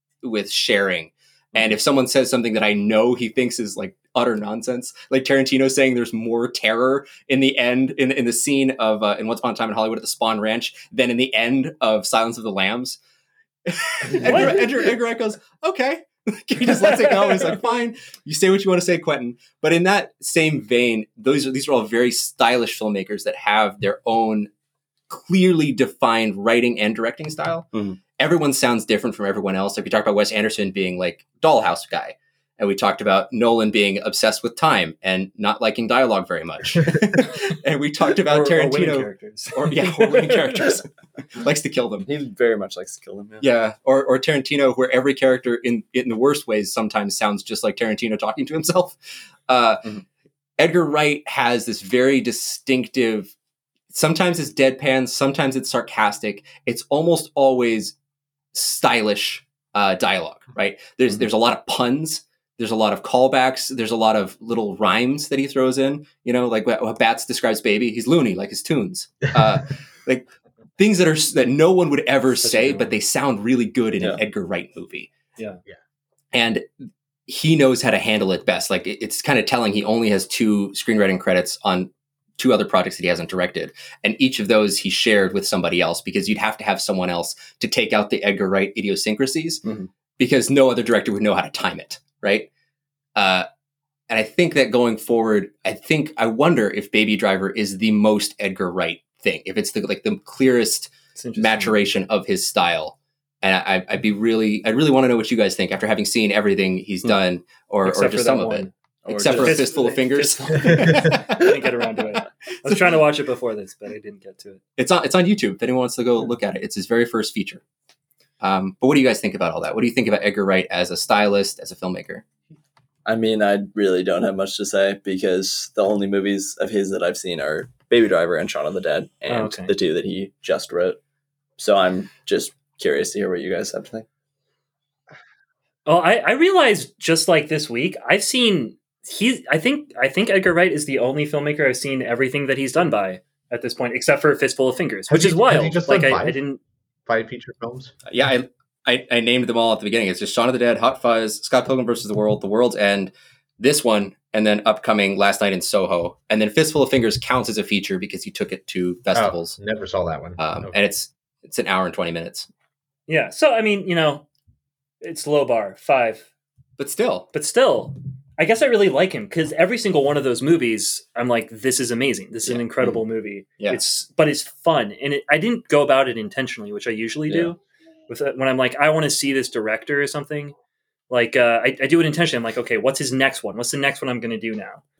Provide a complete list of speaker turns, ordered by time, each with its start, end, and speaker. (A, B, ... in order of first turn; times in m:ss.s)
0:00.2-0:13.0 A
0:13.7-0:24.5 A
0:14.2-0:14.8 B
0:16.7-0:17.6 B
0:25.1-0:42.1 A
0:27.7-0:28.0 C
0:38.2-0:40.7 B
0:42.0-0:43.4 C
0:43.4-0:49.9 A
0:50.6-0:53.3 A
0:53.9-0:58.0 A
0:58.5-1:15.1 A
1:12.4-1:13.0 B
1:16.3-1:16.7 A
1:17.3-1:29.6 A
1:29.6-1:29.9 C
1:30.2-1:32.5 A
1:33.2-1:33.5 A
1:34.1-1:51.6 A
1:41.2-1:41.8 B
1:47.8-1:48.7 B
1:49.0-1:49.8 C
1:49.2-1:54.6 B
1:50.7-1:51.1 D
1:52.6-1:52.9 A
1:54.8-1:57.6 A
1:58.4-2:02.2 A
2:03.1-2:11.0 C
2:09.3-2:09.7 B
2:11.6-2:14.1 C
2:15.9-2:26.6 B
2:25.1-2:26.4 D
2:27.1-2:27.9 D
2:28.1-2:39.6 A
2:39.1-2:40.7 D
2:40.4-2:42.5 A
2:43.1-2:44.3 B
2:45.0-2:46.3 B
2:46.8-2:47.3 A
2:47.3-2:57.6 B
2:57.3-2:57.5 C
2:58.1-3:00.5 B
3:01.1-3:04.8 B